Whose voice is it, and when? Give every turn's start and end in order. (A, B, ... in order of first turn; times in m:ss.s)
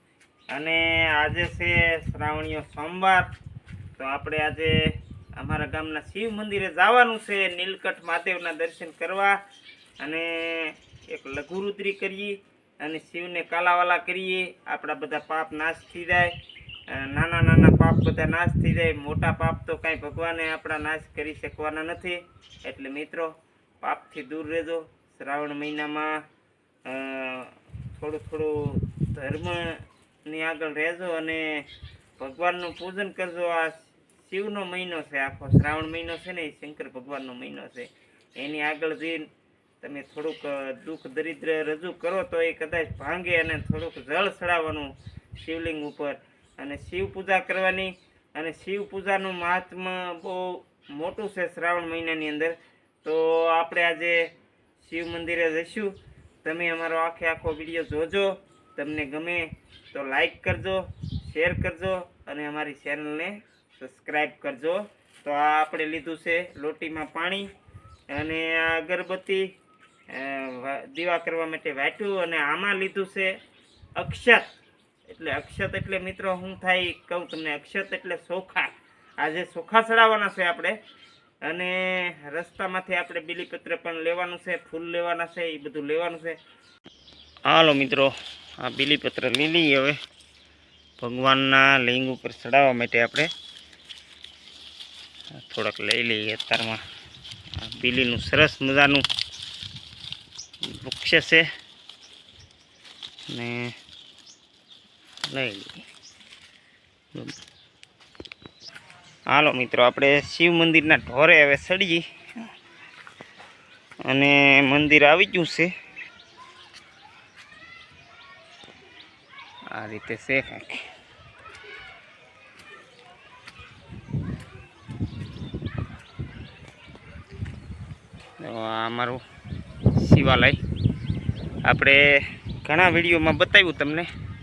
0:00.5-0:03.3 A
0:04.0-0:09.4 A
0:10.0-0:16.4 A
0:16.9-0:26.2 A
0:26.8-0:31.7 A
0:32.2-0:39.3 A
0:39.8-1:07.5 A
1:08.1-1:09.5 A
1:10.1-1:13.4 A
1:14.0-1:14.5 A
1:15.1-1:20.8 A
1:21.4-1:26.4 A
1:27.4-1:30.0 A
1:31.0-1:33.3 A
1:35.4-1:36.8 A
1:37.6-1:39.1 A
1:40.7-1:41.4 A
1:43.3-1:43.7 A
1:45.3-1:45.8 A
1:49.3-1:52.5 A
1:54.1-1:55.7 A
1:59.7-2:00.9 A
2:08.4-2:09.2 A
2:10.0-2:10.6 A
2:11.6-2:14.1 A